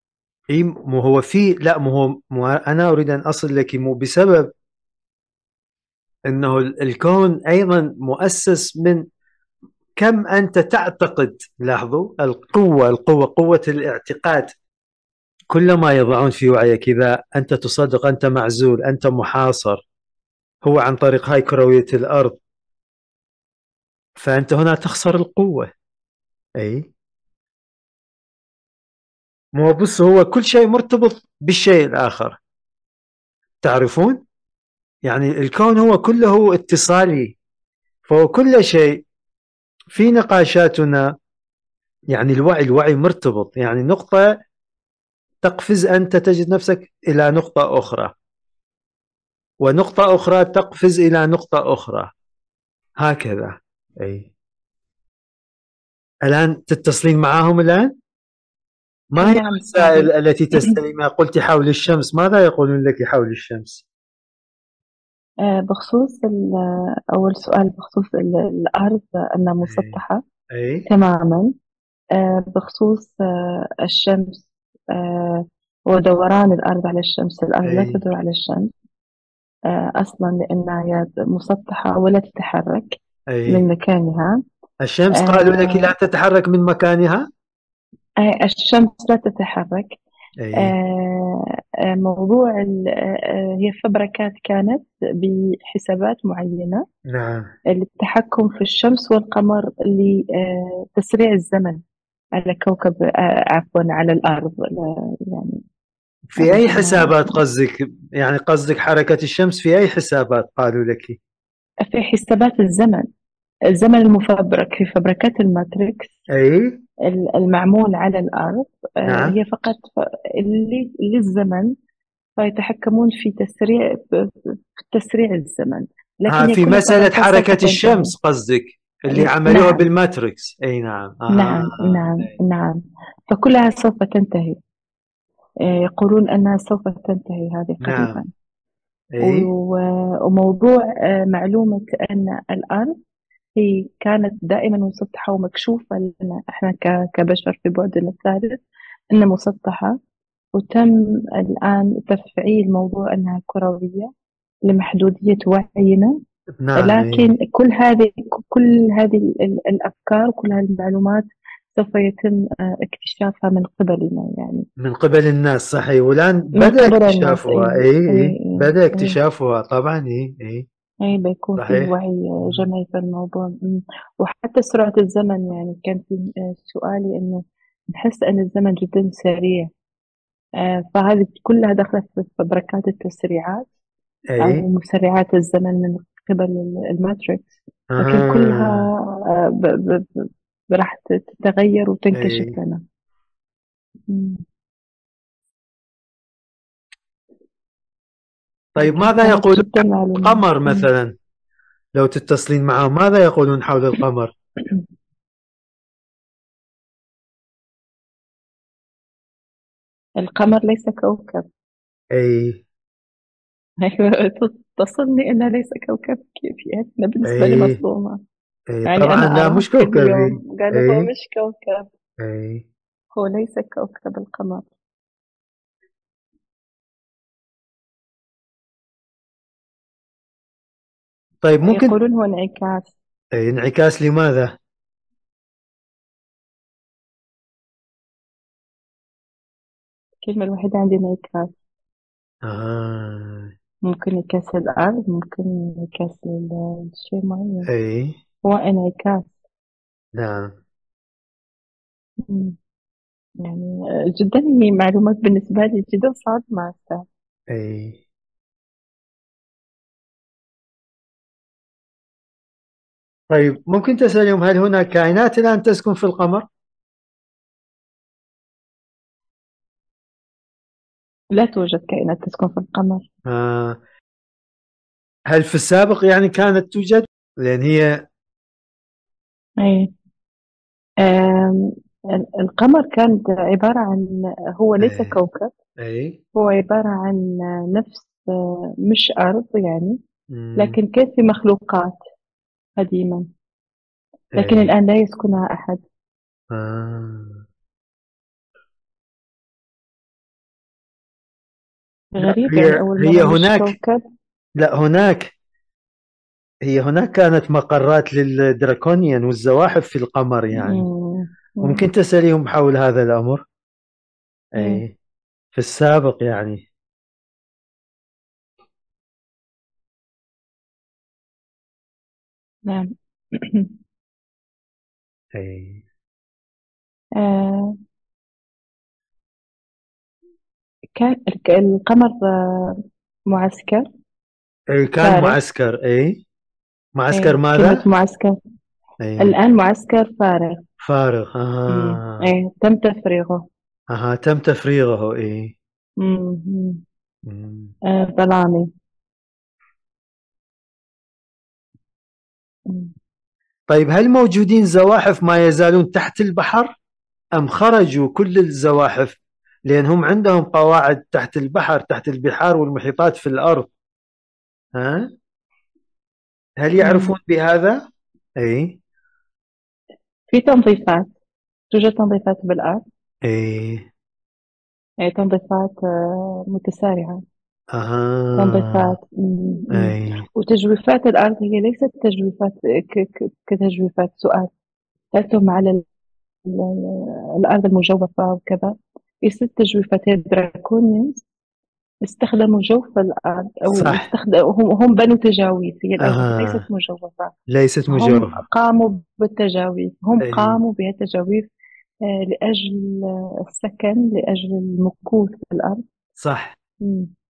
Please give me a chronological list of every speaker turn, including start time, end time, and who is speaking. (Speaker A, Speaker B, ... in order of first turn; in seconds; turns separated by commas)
Speaker A: 0.5-4.5, Speaker A: 6.3-9.0, Speaker A: 10.0-14.5, Speaker A: 15.5-19.8, Speaker A: 20.6-22.4, Speaker A: 24.2-25.7, Speaker A: 26.6-26.9, Speaker A: 29.6-32.4, Speaker A: 33.6-34.2, Speaker A: 35.0-37.3, Speaker A: 38.1-39.0, Speaker A: 39.9-41.1, Speaker A: 42.1-44.2, Speaker A: 45.4-48.1, Speaker A: 49.6-52.1, Speaker A: 53.0-54.3, Speaker A: 56.2-57.9, Speaker A: 59.1-63.8, Speaker B: 59.2-60.8, Speaker B: 65.5-66.5, Speaker B: 67.1-70.2, Speaker A: 69.6-70.0, Speaker A: 70.5-70.8, Speaker B: 70.9-71.5, Speaker B: 72.1-78.7, Speaker A: 77.6-78.0, Speaker B: 79.7-83.0, Speaker A: 83.3-83.7, Speaker B: 83.5-84.4, Speaker A: 84.8-87.3, Speaker B: 85.1-85.9, Speaker B: 88.2-90.0, Speaker A: 90.4-90.7, Speaker B: 90.5-96.8, Speaker A: 97.1-97.5, Speaker B: 97.7-101.8, Speaker B: 102.3-105.6, Speaker A: 106.3-111.2, Speaker B: 106.4-107.3, Speaker B: 111.8-113.0, Speaker B: 113.7-116.1, Speaker A: 116.3-116.8, Speaker B: 117.1-121.7, Speaker A: 119.0-119.3, Speaker B: 122.4-128.1, Speaker A: 126.3-132.3, Speaker B: 129.1-129.8, Speaker B: 131.3-134.6, Speaker B: 135.6-138.3, Speaker A: 137.8-138.2, Speaker A: 139.1-139.5, Speaker B: 139.2-142.9, Speaker B: 143.6-149.9, Speaker B: 150.5-154.1, Speaker B: 154.7-156.2, Speaker A: 156.6-157.3, Speaker B: 156.8-164.6, Speaker A: 164.8-170.6, Speaker B: 166.6-169.2, Speaker B: 171.0-179.7, Speaker A: 171.6-172.7, Speaker B: 180.6-183.7, Speaker A: 184.3-184.6, Speaker B: 184.4-192.8, Speaker A: 187.9-188.9, Speaker A: 192.1-192.6, Speaker B: 194.1-194.4, Speaker A: 198.8-201.1, Speaker B: 198.8-200.9, Speaker A: 201.9-204.3, Speaker B: 210.2-211.5, Speaker A: 212.1-212.6, Speaker B: 213.8-218.2, Speaker A: 217.2-217.8, Speaker A: 218.7-221.1, Speaker B: 218.9-221.9, Speaker A: 222.2-222.6, Speaker B: 223.1-224.7, Speaker A: 231.4-231.9, Speaker B: 231.7-232.9, Speaker A: 233.3-234.6, Speaker B: 240.2-241.5, Speaker A: 242.4-243.5, Speaker B: 243.8-247.7, Speaker A: 247.7-248.2, Speaker B: 248.4-249.4, Speaker A: 250.2-250.6, Speaker B: 252.3-252.6, Speaker B: 253.4-257.1, Speaker A: 257.5-258.0, Speaker A: 263.3-266.5, Speaker B: 271.4-273.1, Speaker A: 273.3-273.8, Speaker A: 275.3-278.0, Speaker B: 279.6-279.9, Speaker B: 281.0-285.5, Speaker A: 284.8-285.2, Speaker A: 285.8-286.2, Speaker B: 286.3-288.2, Speaker B: 288.9-290.0, Speaker A: 290.3-290.8, Speaker B: 290.6-292.0, Speaker B: 292.8-293.3, Speaker A: 294.3-294.7, Speaker B: 294.4-295.8, Speaker A: 296.5-297.4, Speaker B: 302.1-304.0, Speaker A: 302.2-303.7, Speaker A: 304.6-305.3, Speaker A: 306.6-310.9, Speaker B: 310.6-311.9, Speaker A: 311.6-313.4, Speaker A: 314.5-314.9, Speaker B: 314.6-314.8, Speaker A: 315.5-316.6, Speaker B: 322.7-323.7, Speaker A: 325.3-325.8, Speaker B: 327.2-327.7, Speaker B: 330.9-333.9, Speaker A: 334.7-336.2, Speaker B: 335.0-335.4, Speaker A: 336.9-337.8, Speaker B: 337.1-338.4, Speaker A: 339.0-339.3, Speaker B: 339.2-340.6, Speaker A: 340.8-342.3, Speaker B: 341.7-343.5, Speaker A: 343.9-345.5, Speaker B: 346.0-346.8, Speaker A: 347.2-347.7, Speaker B: 347.9-348.7, Speaker B: 352.7-352.9, Speaker A: 353.7-356.7, Speaker A: 357.4-363.7, Speaker A: 364.7-365.1, Speaker A: 366.6-367.8, Speaker B: 366.8-367.1, Speaker A: 368.4-368.8, Speaker B: 370.3-371.1, Speaker B: 371.7-372.8, Speaker A: 373.2-373.9, Speaker B: 375.0-377.2, Speaker A: 377.7-378.9, Speaker B: 378.4-384.5, Speaker A: 379.7-380.2, Speaker B: 385.1-385.8, Speaker B: 386.4-391.2, Speaker B: 392.0-397.3, Speaker A: 393.7-394.1, Speaker A: 396.0-396.6, Speaker A: 397.5-398.4, Speaker B: 397.9-401.5, Speaker A: 400.2-400.6, Speaker B: 402.1-405.8, Speaker A: 406.2-406.6, Speaker B: 406.8-407.1